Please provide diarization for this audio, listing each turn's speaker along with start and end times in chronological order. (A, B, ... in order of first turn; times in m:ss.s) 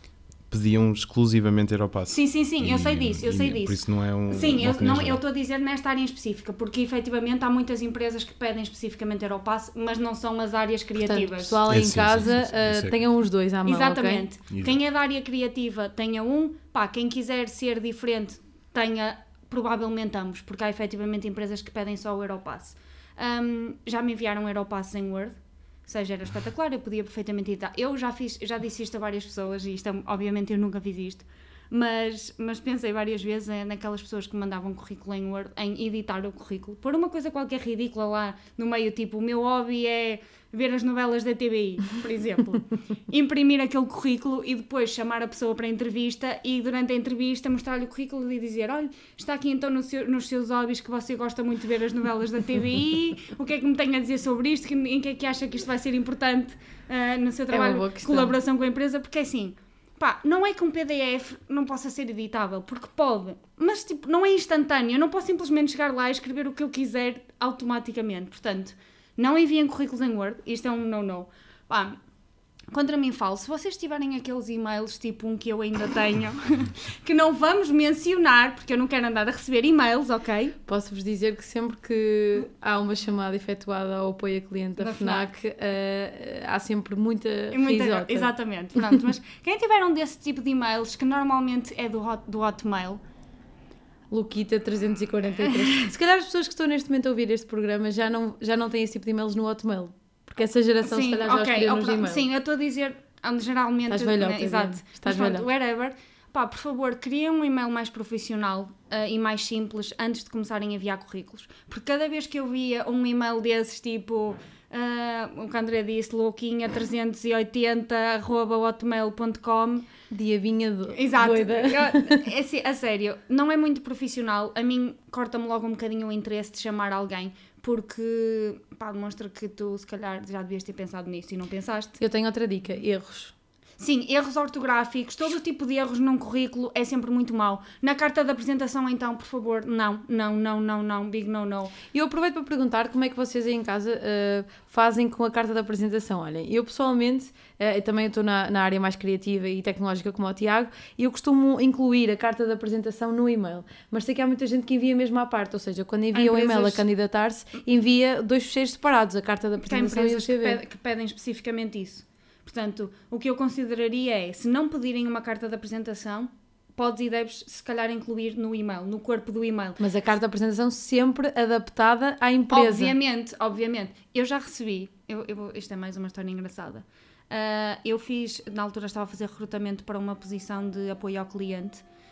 0:00.5-0:05.2 A
0:02.1-0:11.7 B
0:11.0-0:14.2 C
0:11.7-0:13.0 A
0:13.6-1:12.0 B
0:14.5-0:14.8 A
0:57.5-0:58.4 C
1:12.7-1:20.6 B
1:20.6-1:28.3 C
1:24.8-1:25.3 B
1:27.5-1:33.0 B
1:34.1-1:42.2 C
1:40.8-1:59.9 B
1:43.9-1:45.4 C
2:00.1-2:02.2 C
2:00.9-2:12.0 B
2:12.0-2:13.3 C
2:13.8-2:21.7 B
2:21.9-2:40.6 C
2:36.1-2:36.8 B
2:39.6-2:49.8 B
2:49.8-2:52.9 C
2:52.5-3:01.8 B